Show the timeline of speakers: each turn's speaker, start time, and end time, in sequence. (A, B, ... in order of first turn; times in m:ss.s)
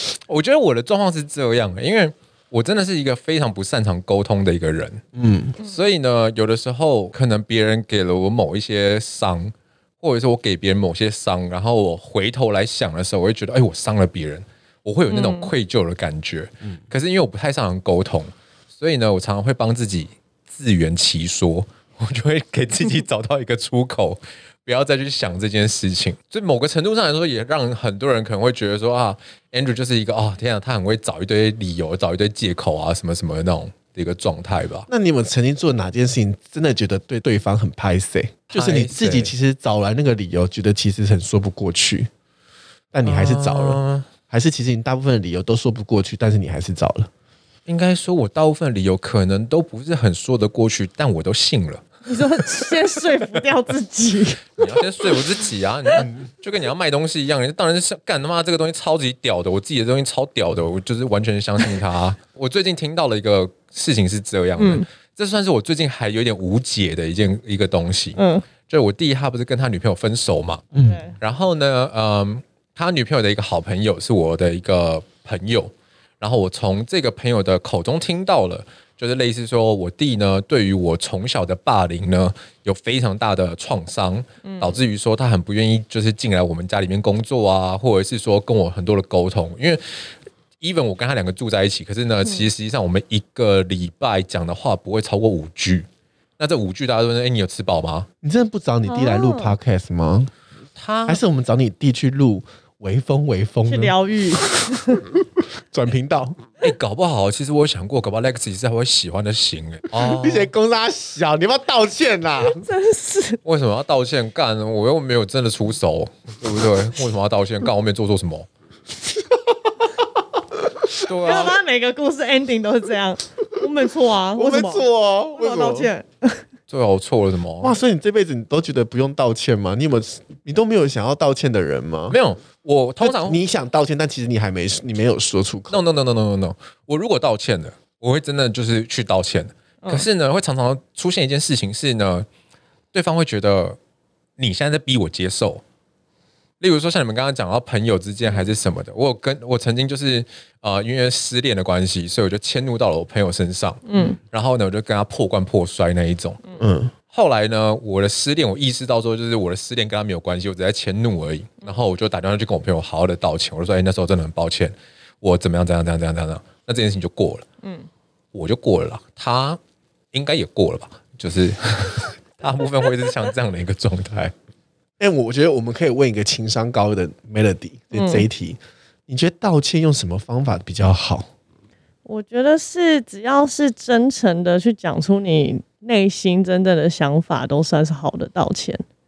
0:00.3-0:05.0 A
0:05.1-0:05.6 B
0:05.6-0:34.9 A
0:15.1-0:15.5 C
0:34.9-0:42.1 B
0:38.5-0:39.3 A
0:42.9-0:47.1 B
0:43.0-0:44.1 A
0:47.7-0:51.9 A
0:52.1-0:54.7 C
0:54.6-1:29.8 A
0:56.0-0:56.2 B
1:04.6-1:04.8 C
1:08.2-1:08.4 C
1:10.7-1:11.0 B
1:10.8-1:11.1 C
1:24.4-1:24.8 C
1:30.6-1:35.9 A
1:36.4-1:38.1 A
1:38.2-1:40.3 B
1:38.8-1:39.6 C
1:40.8-1:41.2 A
1:41.1-1:46.4 B
1:43.7-1:45.0 C
1:46.6-1:50.5 A
1:49.9-1:52.6 B
1:52.5-1:53.4 C
1:53.4-1:58.5 A
2:01.0-2:01.6 A
2:01.2-2:06.4 C
2:04.3-2:05.9 B
2:06.7-2:07.8 A
2:07.6-2:12.2 B
2:12.1-2:13.4 A
2:13.0-2:15.8 B
2:15.7-2:22.3 A
2:22.9-2:23.8 A
2:24.4-2:25.6 A
2:26.6-2:36.4 A
2:33.8-2:34.2 C
2:36.6-2:36.9 B
2:37.1-2:47.4 A
2:47.6-2:47.9 C
2:48.3-2:49.6 A
2:50.1-2:54.3 A
2:55.0-3:01.3 B
2:57.9-2:58.2 C
3:02.0-3:08.8 C